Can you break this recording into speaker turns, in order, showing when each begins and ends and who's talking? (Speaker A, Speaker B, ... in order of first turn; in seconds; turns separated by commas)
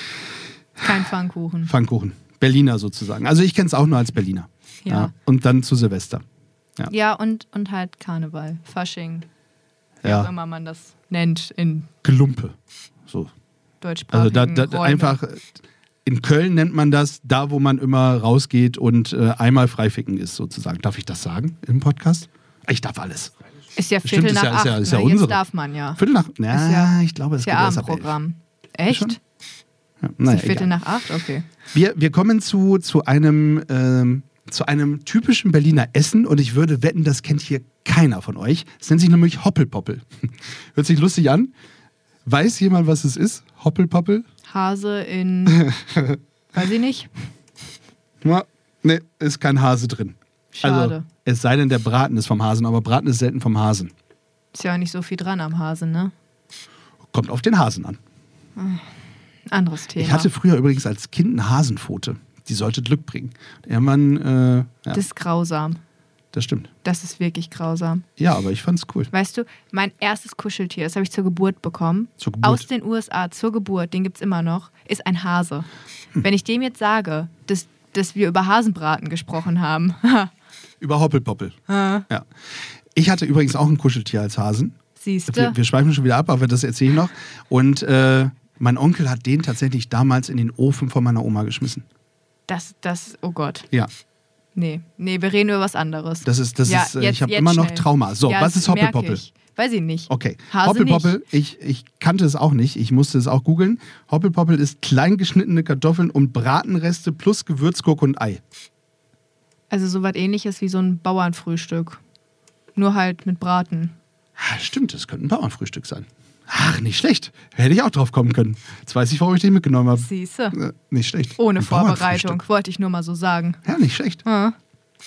Speaker A: 0.8-1.7, Speaker B: 1.7-6.2, Speaker A: 4.8-5.1, Speaker A: 6.9-9.2, Speaker B: 10.0-10.3, Speaker A: 10.0-11.9, Speaker B: 12.0-12.6, Speaker A: 13.8-15.2, Speaker B: 14.1-15.5, Speaker B: 16.1-23.3, Speaker A: 23.8-26.0, Speaker B: 24.0-25.4, Speaker B: 25.9-28.1, Speaker A: 26.5-29.2, Speaker B: 28.9-29.2, Speaker B: 30.0-30.7, Speaker A: 30.3-31.5, Speaker B: 31.7-41.5, Speaker B: 42.2-44.2, Speaker A: 44.5-45.7, Speaker B: 45.6-46.2, Speaker A: 46.5-47.1, Speaker B: 48.2-53.9, Speaker A: 50.5-51.1, Speaker A: 54.5-56.1, Speaker B: 57.1-58.0, Speaker A: 58.6-58.9, Speaker A: 59.5-60.3, Speaker B: 60.0-65.0, Speaker A: 64.9-65.8, Speaker B: 66.3-66.7, Speaker A: 66.8-68.0, Speaker B: 68.2-69.1, Speaker A: 69.1-75.7, Speaker B: 72.2-72.7, Speaker A: 76.2-80.3, Speaker B: 80.8-82.3, Speaker A: 81.7-82.1, Speaker B: 82.9-84.8, Speaker A: 85.0-85.6, Speaker B: 85.3-91.8, Speaker A: 92.5-93.7, Speaker A: 94.5-101.2, Speaker B: 96.2-99.2, Speaker B: 100.1-108.4, Speaker A: 109.7-112.0, Speaker A: 112.8-113.9, Speaker B: 114.4-122.4, Speaker A: 119.9-120.6, Speaker A: 121.4-123.6, Speaker B: 123.6-124.2, Speaker A: 124.2-124.5